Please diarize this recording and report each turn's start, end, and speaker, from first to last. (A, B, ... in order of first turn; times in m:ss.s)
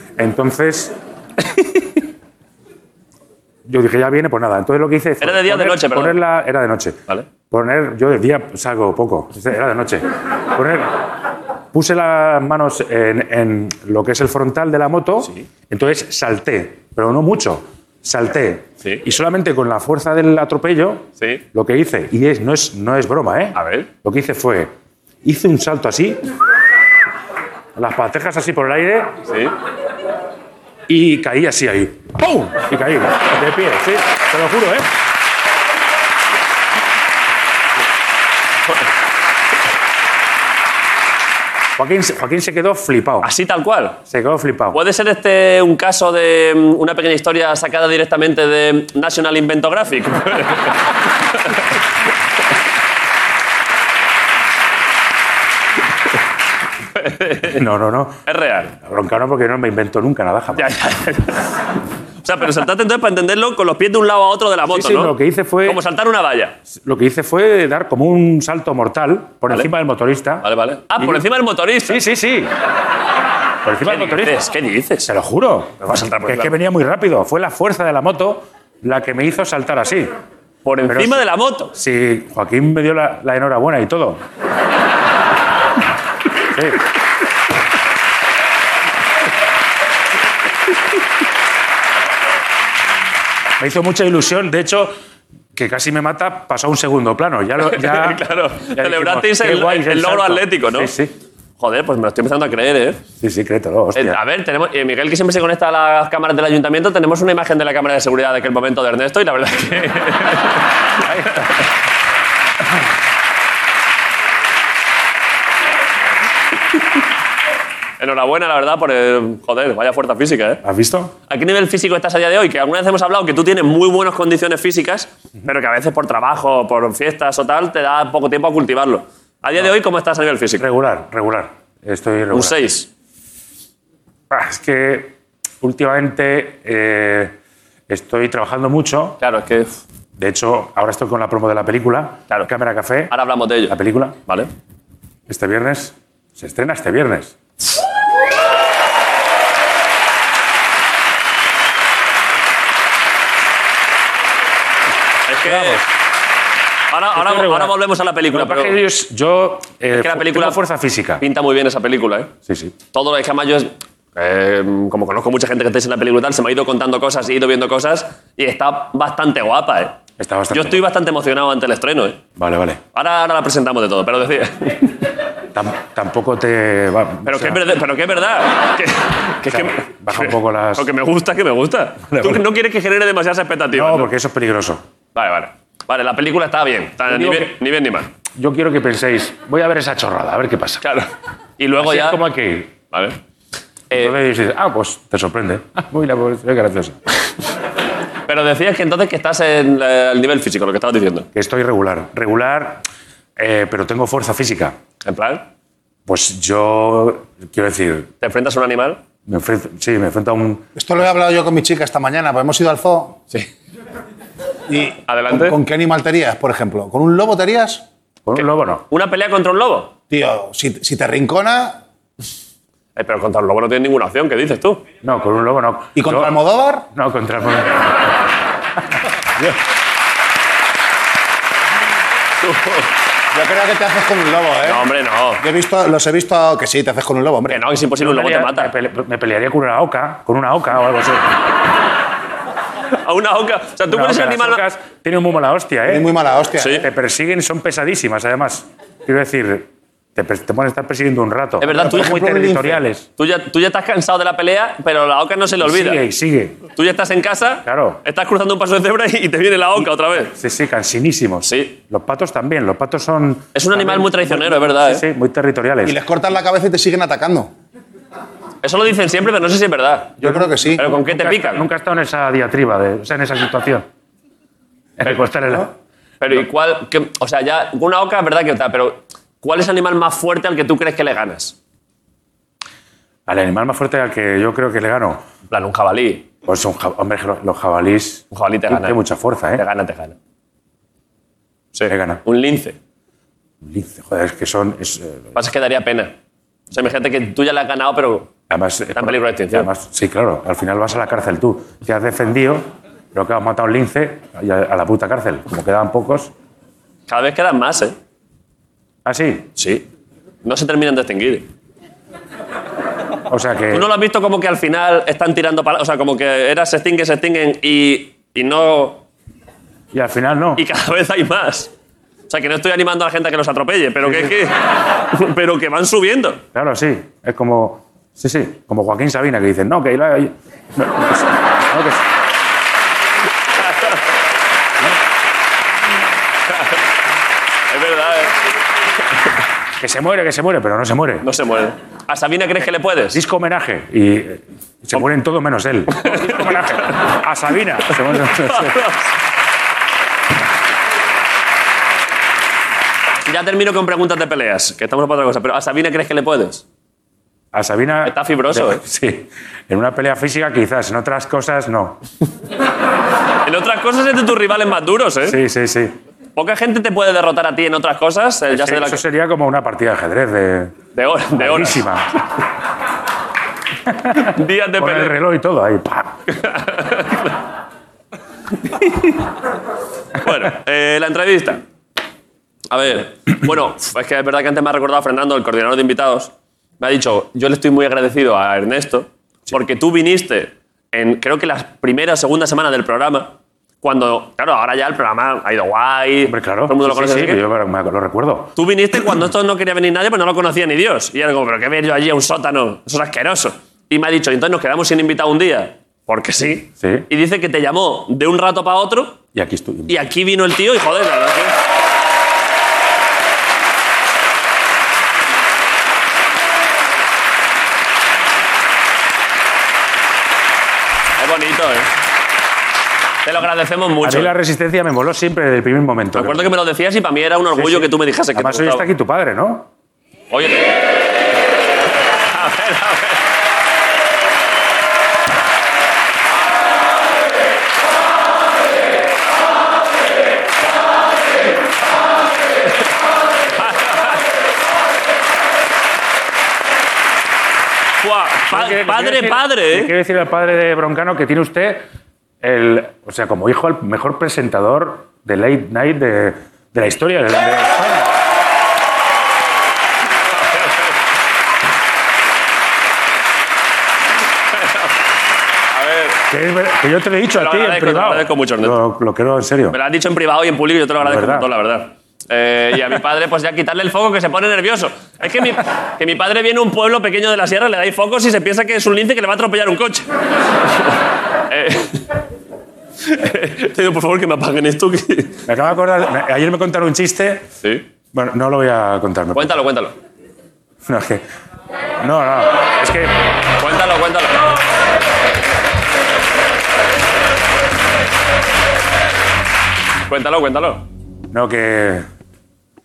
0:00.2-0:00.9 A
0:03.7-0:11.0 A
0:05.2-0:06.2 B
0:11.7-0:24.7 A
0:23.6-0:23.9 B
0:25.2-0:26.2 A
0:27.8-0:29.1 A
0:29.3-0:29.5 B
0:30.9-0:34.9 A
0:41.8-0:43.3 A
0:43.2-0:44.0 B
0:44.1-0:44.8 A
0:44.7-0:50.8 B
0:57.0-0:57.6 B
0:57.5-0:58.2 A
0:58.3-0:58.7 B
0:58.8-1:00.7 A
1:00.6-1:01.5 B
1:02.2-1:05.1 B
1:04.7-1:05.8 A
1:05.7-1:06.6 B
1:06.7-1:10.4 A
1:10.4-1:12.0 B
1:11.9-1:12.5 A
1:13.6-1:14.4 A
1:13.8-1:15.1 B
1:15.1-1:20.1 A
1:15.8-1:16.5 B
1:20.6-1:21.7 B
1:20.9-1:24.2 A
1:26.5-1:26.8 A
1:33.6-1:35.0 A
1:35.6-1:38.2 A
1:37.7-1:40.9 B
1:38.7-1:41.1 A
1:41.6-1:43.0 B
1:43.2-1:44.2 A
1:44.0-1:50.7 B
1:51.0-1:51.5 A
1:58.0-2:00.6 B
2:00.6-2:01.1 A
2:01.3-2:10.6 B
2:10.6-2:12.6 A
2:12.3-2:12.9 B
2:14.3-2:17.4 A
2:17.9-2:19.2 A
2:19.2-2:19.8 B
2:20.2-2:23.1 A
2:23.1-2:23.8 B
2:23.7-2:24.2 A
2:25.3-2:27.3 A
2:35.3-2:35.8 B
2:35.4-2:35.8 A
2:36.9-2:38.8 B
2:37.1-2:37.7 A
2:38.3-2:41.2 A
2:39.9-2:40.6 B
2:41.2-2:42.3 B
2:42.5-2:42.8 A
2:42.9-2:50.0 B
2:50.2-2:50.8 A
2:50.5-2:52.2 B
2:52.4-2:52.8 A
2:52.9-2:55.0 B
2:55.6-2:57.6 A
2:57.3-3:04.1 B
2:59.5-3:00.9 A
3:02.1-3:02.4 A
3:03.7-3:04.8 A
3:05.2-3:08.1 B
3:07.1-3:07.6 A
3:08.4-3:10.8 A
3:10.8-3:12.2 B
3:11.8-3:12.7 A
3:12.9-3:13.2 B
3:13.9-3:17.0 A
3:18.3-3:21.3 B
3:21.4-3:22.8 A
3:23.4-3:24.8 A
3:25.0-3:25.5 B
3:26.1-3:28.1 A
3:28.2-3:29.0 B
3:29.3-3:30.7 A
3:30.8-3:33.2 C
3:34.7-3:37.8 C
3:35.1-3:35.6 B
3:38.3-3:38.8 A
3:38.9-3:39.9 B
3:40.1-3:41.8 C
3:43.0-3:44.8 B
3:45.0-3:46.3 A
3:46.0-3:46.9 C
3:46.9-3:47.8 A
3:52.4-3:52.9 B
3:53.3-3:54.9 C
3:54.6-3:55.4 B
3:55.4-3:57.6 C
3:57.5-3:58.7 B
3:58.0-4:01.3 A
4:03.0-4:04.6 B
4:03.9-4:06.1 A
4:05.9-4:06.8 C
4:06.6-4:06.9 B
4:06.8-4:13.1 A
4:11.6-4:12.2 B
4:11.7-4:12.8 C
4:13.2-4:16.0 B
4:15.6-4:16.6 A
4:16.8-4:20.3 B
4:17.6-4:18.0 A
4:20.4-4:26.0 A
4:21.5-4:21.8 B
4:23.6-4:25.0 B
4:25.8-4:27.5 C
4:28.6-4:30.2 B
4:30.2-4:30.8 C
4:30.2-4:33.9 A
4:30.8-4:31.6 B
4:35.0-4:35.7 A
4:36.2-4:41.6 B
4:43.3-4:45.2 A
4:45.5-4:46.3 B
4:46.5-4:49.6 A
4:48.3-4:49.0 B
4:49.6-4:50.2 B
4:51.8-4:52.8 B
4:51.9-4:52.2 A
4:53.6-4:55.3 A
4:55.4-4:56.1 B
4:56.7-4:58.3 B
4:58.5-5:06.3 A
4:59.0-4:59.7 B
5:07.1-5:08.0 B
5:09.0-5:09.5 A
5:09.6-5:09.8 B
5:10.4-5:11.5 B
5:13.3-5:13.9 A
5:13.7-5:19.0 B
5:19.9-5:20.6 A
5:20.6-5:21.7 B
5:22.3-5:26.4 B
5:24.0-5:24.3 A
5:26.5-5:32.0 A
5:33.6-5:34.0 B
5:36.5-5:36.8 B
5:37.7-5:38.4 B
5:39.8-5:41.3 A
5:41.2-5:43.2 B
5:43.1-5:48.9 A
5:46.0-5:47.0 B
5:48.6-5:49.0 B
5:53.2-5:56.6 B
5:57.5-6:02.0 A
5:58.0-5:58.8 B
6:03.4-6:05.4 B
6:05.3-6:06.0 A
6:06.4-6:09.0 B
6:08.5-6:10.8 A
6:10.9-6:11.8 B
6:11.3-6:12.1 A
6:13.9-6:14.2 A
6:14.2-6:15.2 B
6:14.8-6:16.2 A
6:16.4-6:17.4 B
6:20.2-6:21.6 B
6:22.7-6:37.4 B
6:36.3-6:38.5 A
6:38.6-6:49.2 B
6:46.8-6:47.1 A
6:49.3-6:49.9 A
6:49.9-6:51.6 B
7:01.2-7:01.9 B
7:03.2-7:04.3 B
7:04.0-7:06.5 A
7:06.2-7:08.9 B
7:07.6-7:09.7 A
7:10.3-7:10.6 B
7:12.3-7:13.2 B
7:23.6-7:24.2 B
7:28.0-7:29.9 B
7:28.5-7:31.8 A
7:32.4-7:38.2 A
7:40.5-7:40.8 B
7:44.6-7:44.9 B
7:45.7-7:46.2 B
7:46.3-7:49.8 A
7:47.4-7:48.8 B
7:49.7-8:00.1 B
7:51.0-7:51.5 A
8:01.5-8:02.1 B
8:03.0-8:05.4 B
8:05.5-8:07.5 A
8:08.1-8:09.6 A
8:09.3-8:10.0 B
8:10.9-8:11.2 A
8:12.0-8:13.1 A
8:13.6-8:14.4 B
8:20.1-8:20.8 B
8:21.3-8:22.1 A